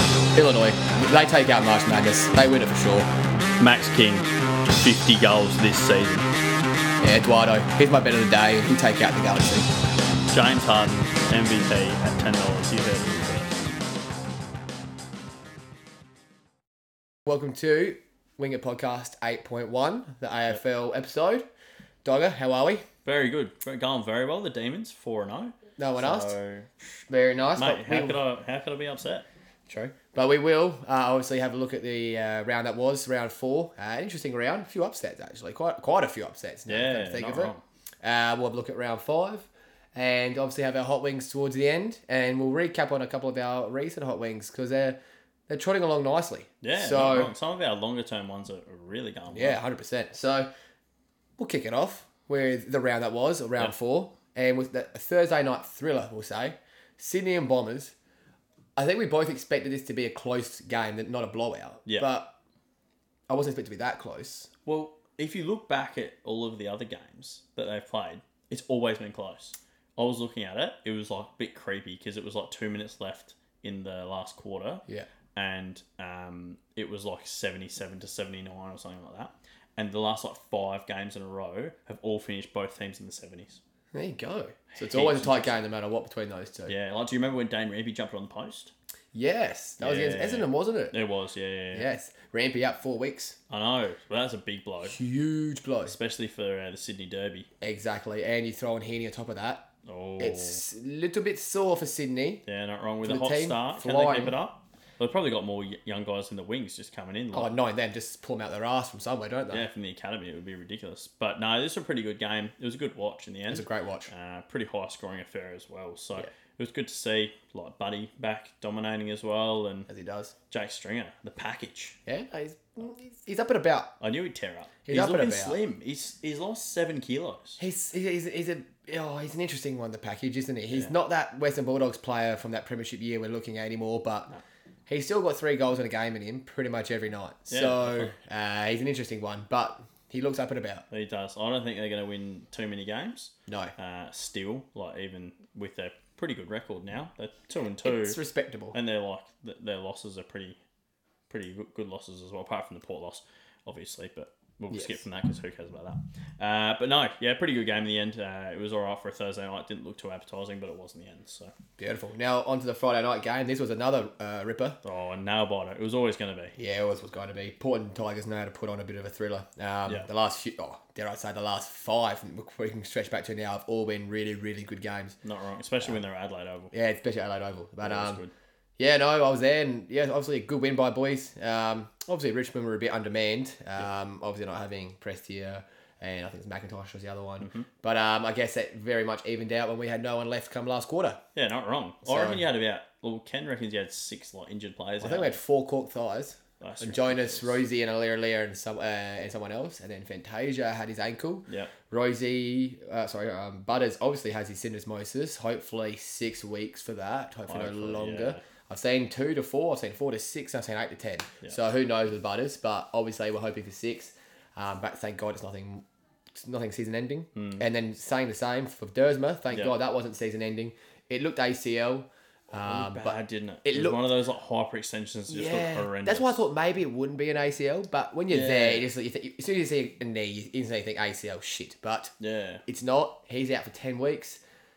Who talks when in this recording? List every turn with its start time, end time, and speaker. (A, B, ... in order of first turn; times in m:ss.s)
0:00.3-0:03.1 A
0:03.6-0:06.3 B
0:07.0-0:09.7 A
0:10.3-0:13.6 B
0:17.2-0:21.4 A
0:22.0-0:22.8 A
0:23.0-0:27.0 B
0:25.8-0:26.3 A
0:27.1-0:28.2 A
0:27.6-0:29.2 B
0:29.7-0:45.0 A
0:36.7-0:37.6 B
0:45.5-0:47.3 A
0:46.6-0:49.6 B
0:49.3-0:50.5 A
0:51.4-0:57.9 A
0:58.8-1:02.3 A
1:03.3-1:04.5 A
1:04.6-1:23.6 B
1:23.9-1:26.7 A
1:24.7-1:25.5 B
1:26.7-1:28.7 B
1:29.1-1:30.9 A
1:29.8-1:31.9 B
1:31.7-1:33.4 A
1:33.5-1:35.0 B
1:34.8-1:36.0 A
1:35.8-1:37.5 B
1:37.6-1:42.4 A
1:39.8-1:40.6 B
1:42.4-1:47.5 B
1:43.0-1:44.4 A
1:47.3-1:49.7 A
1:49.5-1:59.9 B
1:53.5-1:54.1 A
1:59.9-2:00.3 A
2:00.5-2:02.0 B
2:02.1-2:03.9 A
2:04.0-2:07.6 B
2:04.8-2:05.6 A
2:07.6-2:14.3 A
2:14.9-2:20.8 A
2:17.5-2:18.1 B
2:20.9-2:28.2 B
2:23.5-2:23.7 A
2:27.8-2:28.8 A
2:28.7-2:30.6 B
2:31.3-2:41.5 B
2:34.7-2:35.0 A
2:41.8-2:44.8 A
2:44.8-2:46.6 B
2:46.6-2:55.2 A
2:55.2-2:56.7 B
2:56.7-2:58.2 A
2:57.8-2:58.3 B
2:58.8-3:11.2 A
3:07.4-3:07.7 B
3:11.3-3:15.4 B
3:12.0-3:12.4 A
3:15.0-3:44.0 A
3:16.6-3:17.6 B
3:27.5-3:28.4 B
3:37.3-3:37.6 B
3:42.5-3:46.4 B
3:45.3-3:52.1 A
3:48.3-3:48.9 B
3:52.2-3:52.6 B
3:52.6-3:54.4 A